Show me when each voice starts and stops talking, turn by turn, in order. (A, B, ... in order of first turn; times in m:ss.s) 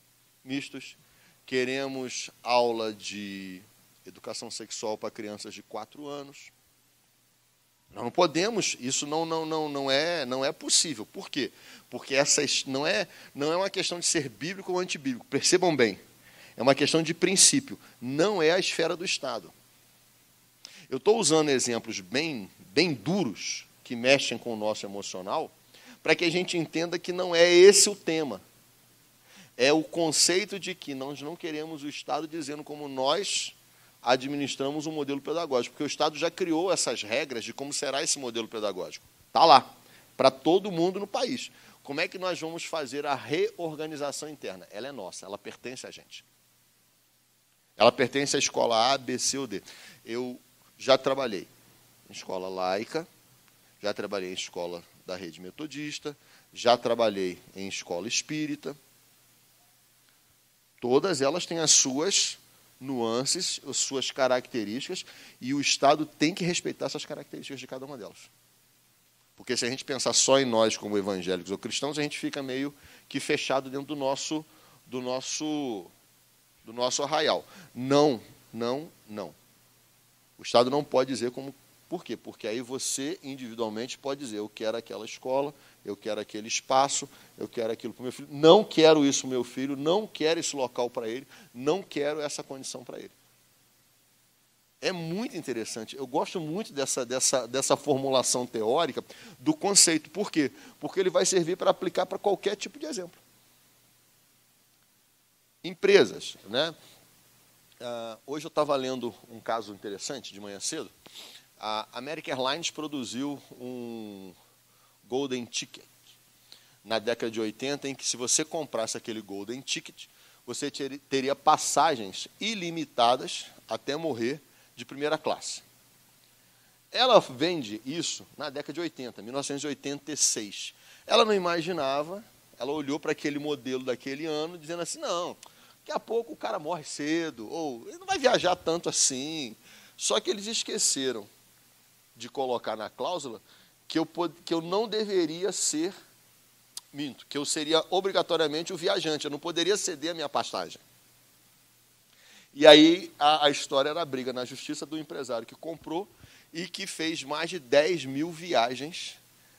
0:00.4-0:06.5 A
0:07.9-0:16.0 A
0:16.6-0:19.5 A
0:20.9-0:28.4 A
0:29.6-0:46.2 A
0:47.8-0:51.5 A
0:52.1-0:53.1 A
0:53.8-0:58.8 A
1:00.8-1:08.3 A
1:09.4-1:15.9 A
1:16.6-1:19.4 A
1:20.4-1:33.1 A
1:34.8-1:43.2 A
1:45.6-1:46.7 A
1:47.8-1:50.9 A
1:51.6-1:54.3 A
1:55.0-1:55.9 A
1:56.8-2:05.6 A
2:06.9-2:21.3 A
2:22.2-2:26.0 A
2:26.9-2:30.8 A
2:32.5-2:39.2 A